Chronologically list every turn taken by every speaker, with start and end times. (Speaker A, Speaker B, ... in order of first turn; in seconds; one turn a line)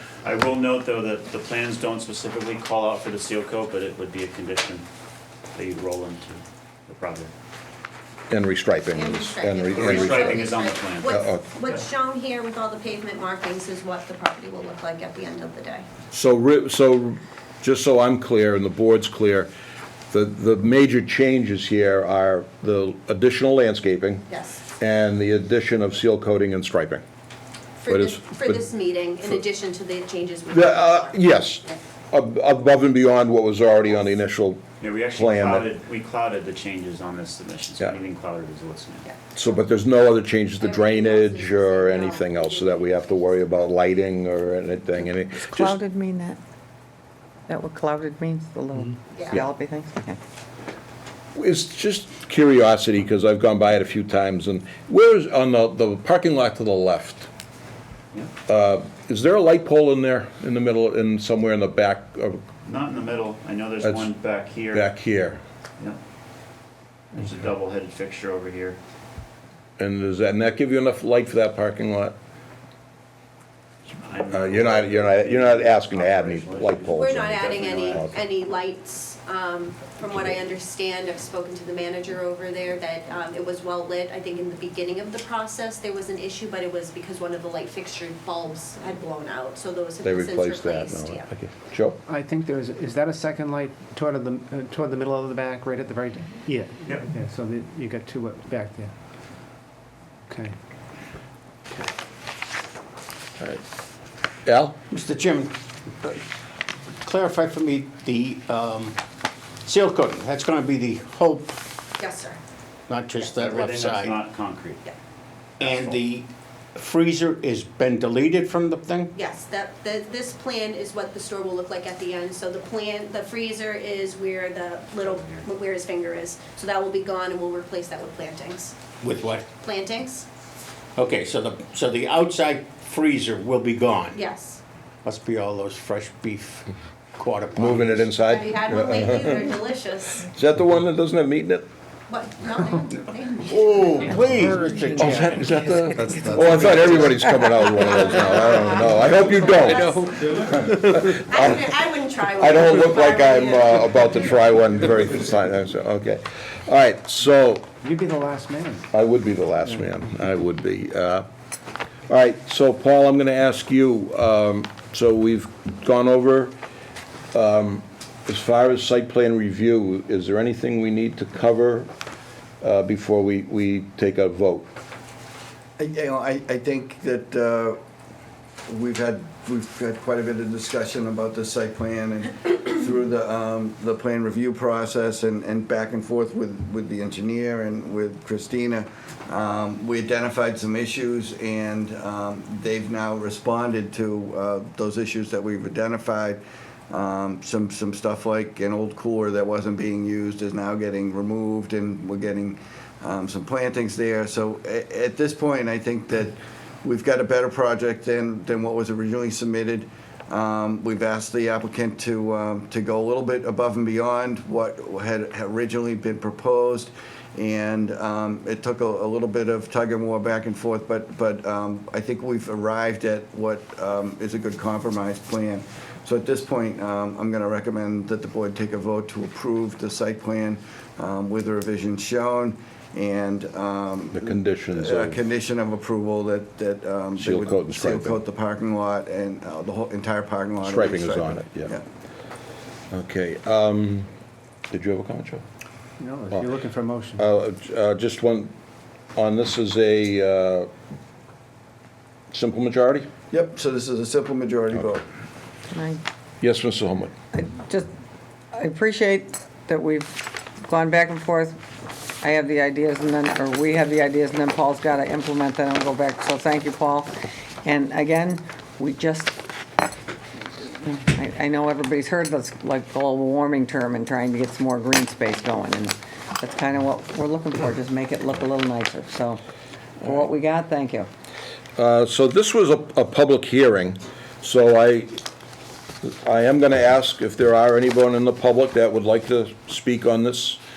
Speaker A: 0.2-4.9
Speaker A: 5.5-7.3
Speaker B: 8.3-10.5
Speaker C: 8.9-15.8
Speaker A: 9.7-11.2
Speaker B: 11.1-11.4
Speaker B: 16.1-19.5
Speaker B: 20.1-24.2
Speaker C: 24.3-24.6
Speaker B: 24.8-27.0
Speaker C: 27.8-31.8
Speaker B: 27.9-28.6
Speaker B: 30.5-35.7
Speaker A: 34.8-39.1
Speaker B: 39.4-45.8
Speaker C: 40.6-43.5
Speaker D: 45.3-46.4
Speaker D: 47.5-50.2
Speaker B: 51.4-57.3
Speaker B: 58.5-62.4
Speaker A: 62.6-64.9
Speaker B: 63.8-64.1
Speaker B: 64.7-65.4
Speaker A: 67.1-68.8
Speaker B: 69.8-72.2
Speaker A: 74.0-78.1
Speaker B: 74.3-78.2
Speaker C: 76.9-91.3
Speaker B: 90.0-92.0
Speaker E: 92.1-98.9
Speaker E: 100.3-100.5
Speaker B: 104.5-104.8
Speaker F: 104.9-106.2
Speaker F: 107.0-109.0
Speaker F: 109.6-111.8
Speaker C: 112.0-112.4
Speaker F: 112.9-114.2
Speaker A: 113.4-114.8
Speaker F: 115.6-119.2
Speaker A: 115.6-116.0
Speaker C: 119.2-128.8
Speaker A: 125.0-125.5
Speaker F: 129.0-129.5
Speaker C: 129.6-130.3
Speaker F: 131.0-134.2
Speaker C: 134.1-134.6
Speaker F: 135.0-138.2
Speaker B: 137.6-139.4
Speaker C: 138.3-140.3
Speaker B: 140.2-141.7
Speaker C: 142.1-144.2
Speaker F: 143.5-145.6
Speaker D: 144.6-145.7
Speaker B: 145.0-150.1
Speaker D: 146.3-147.2
Speaker C: 149.2-150.6
Speaker B: 150.7-151.7
Speaker C: 151.2-154.3
Speaker B: 152.3-157.7
Speaker E: 157.8-158.9
Speaker B: 158.9-161.3
Speaker B: 162.1-166.5
Speaker B: 167.3-171.9
Speaker B: 172.6-174.7
Speaker G: 175.8-177.8
Speaker G: 178.7-241.8
Speaker B: 234.1-235.2
Speaker B: 237.2-238.2
Speaker B: 240.6-241.7
Speaker B: 242.9-244.1
Speaker B: 244.7-245.4
Speaker E: 246.0-247.2
Speaker B: 247.2-248.5
Speaker B: 249.2-250.7
Speaker B: 252.3-253.1
Speaker G: 253.3-255.0
Speaker D: 255.7-256.0
Speaker B: 256.4-257.1
Speaker D: 257.3-257.9
Speaker D: 258.5-261.6
Speaker D: 262.2-267.1
Speaker D: 267.6-269.4
Speaker D: 270.8-279.4
Speaker D: 280.0-281.1
Speaker B: 281.8-285.1
Speaker B: 286.1-290.6